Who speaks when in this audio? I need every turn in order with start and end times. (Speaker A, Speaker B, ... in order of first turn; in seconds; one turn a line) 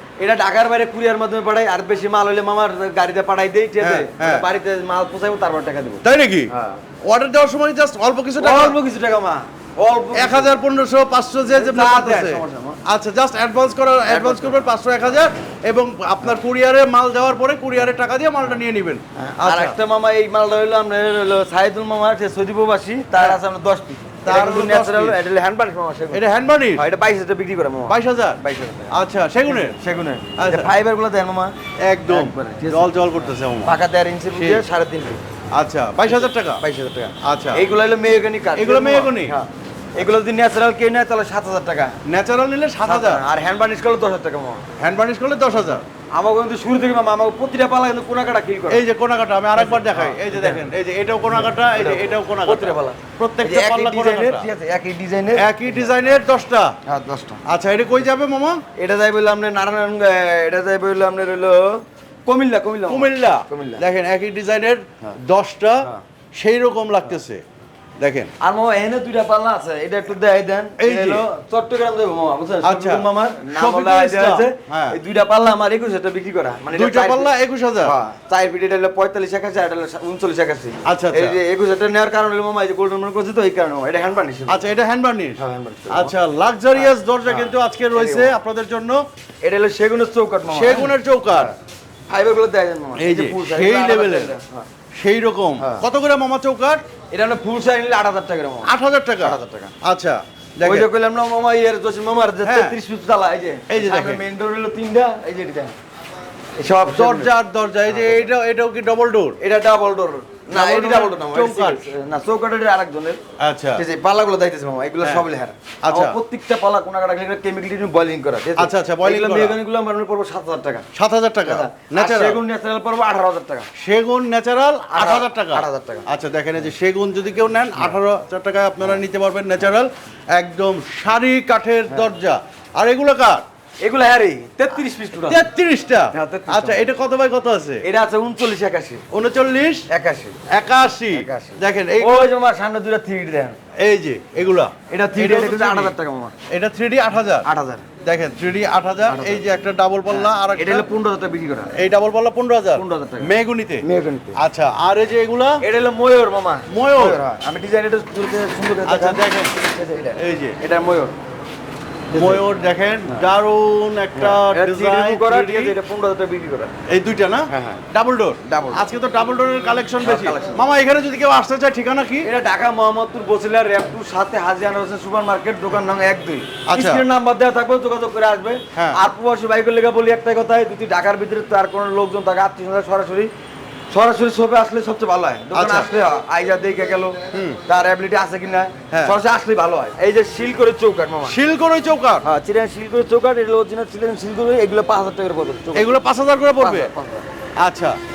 Speaker A: 0.2-6.8
Speaker B: 3.8-4.5
Speaker B: 6.0-6.5
Speaker B: 7.0-8.8
Speaker A: 8.4-10.6
Speaker B: 10.1-19.8
Speaker A: 11.5-12.8
Speaker A: 14.1-14.7
Speaker A: 19.1-32.9
Speaker B: 24.2-25.2
Speaker B: 26.1-26.8
Speaker B: 27.9-28.4
Speaker B: 28.9-29.8
Speaker B: 30.4-30.7
Speaker B: 31.8-33.8
Speaker A: 33.6-35.2
Speaker B: 34.3-34.6
Speaker B: 35.5-36.6
Speaker A: 36.1-42.0
Speaker B: 37.2-37.6
Speaker B: 38.5-39.4
Speaker B: 42.0-43.2
Speaker A: 42.9-44.6
Speaker B: 44.8-45.8
Speaker A: 46.1-48.8
Speaker B: 48.7-54.5
Speaker A: 49.5-50.6
Speaker A: 51.3-55.5
Speaker B: 55.4-56.7
Speaker A: 56.9-57.4
Speaker B: 57.5-58.6
Speaker A: 58.7-63.8
Speaker B: 62.9-67.4
Speaker B: 68.0-68.3
Speaker A: 68.4-84.7
Speaker B: 70.8-71.2
Speaker B: 72.6-75.0
Speaker B: 76.7-78.0
Speaker B: 80.8-81.4
Speaker B: 84.5-85.4
Speaker A: 85.4-86.1
Speaker B: 85.9-89.0
Speaker A: 86.7-88.3
Speaker A: 89.4-91.5
Speaker B: 90.5-91.5
Speaker A: 92.1-94.7
Speaker B: 93.0-94.3
Speaker B: 94.9-96.8
Speaker A: 95.6-95.8
Speaker A: 97.1-99.7
Speaker B: 98.6-100.9
Speaker A: 100.6-105.7
Speaker B: 102.4-102.8
Speaker B: 103.7-104.2
Speaker A: 106.6-107.3
Speaker B: 106.9-109.4
Speaker A: 107.9-108.2
Speaker A: 109.4-113.2
Speaker B: 110.5-111.8
Speaker B: 113.4-113.8
Speaker A: 113.8-120.9
Speaker B: 115.8-116.2
Speaker B: 118.6-119.6
Speaker B: 120.9-122.4
Speaker A: 121.4-123.7
Speaker B: 123.8-133.4
Speaker A: 124.9-126.1
Speaker A: 133.8-135.4
Speaker B: 135.2-137.8
Speaker A: 136.1-136.9
Speaker A: 137.8-139.0
Speaker B: 139.1-139.8
Speaker A: 139.9-140.4
Speaker B: 140.5-142.3
Speaker A: 141.1-143.6
Speaker B: 143.8-145.9
Speaker A: 144.9-146.3
Speaker B: 146.5-147.4
Speaker A: 147.4-147.9
Speaker B: 148.0-150.9
Speaker A: 149.0-149.4
Speaker A: 150.1-151.8
Speaker B: 151.7-153.8
Speaker A: 152.7-154.4
Speaker B: 154.4-155.6
Speaker A: 155.6-161.1
Speaker B: 156.7-157.2
Speaker B: 158.8-159.5
Speaker B: 160.2-160.6
Speaker A: 162.1-162.4
Speaker B: 162.1-165.8
Speaker A: 164.1-166.7
Speaker B: 166.9-172.3
Speaker A: 167.5-167.8
Speaker A: 168.4-168.8
Speaker A: 170.0-170.7
Speaker A: 172.2-183.3
Speaker B: 176.7-177.0
Speaker B: 178.7-179.0
Speaker A: 183.9-191.4
Speaker B: 185.5-185.9
Speaker B: 187.3-187.6
Speaker B: 191.2-192.2
Speaker A: 192.2-196.0
Speaker B: 195.7-196.9
Speaker A: 196.6-197.2
Speaker B: 197.6-198.0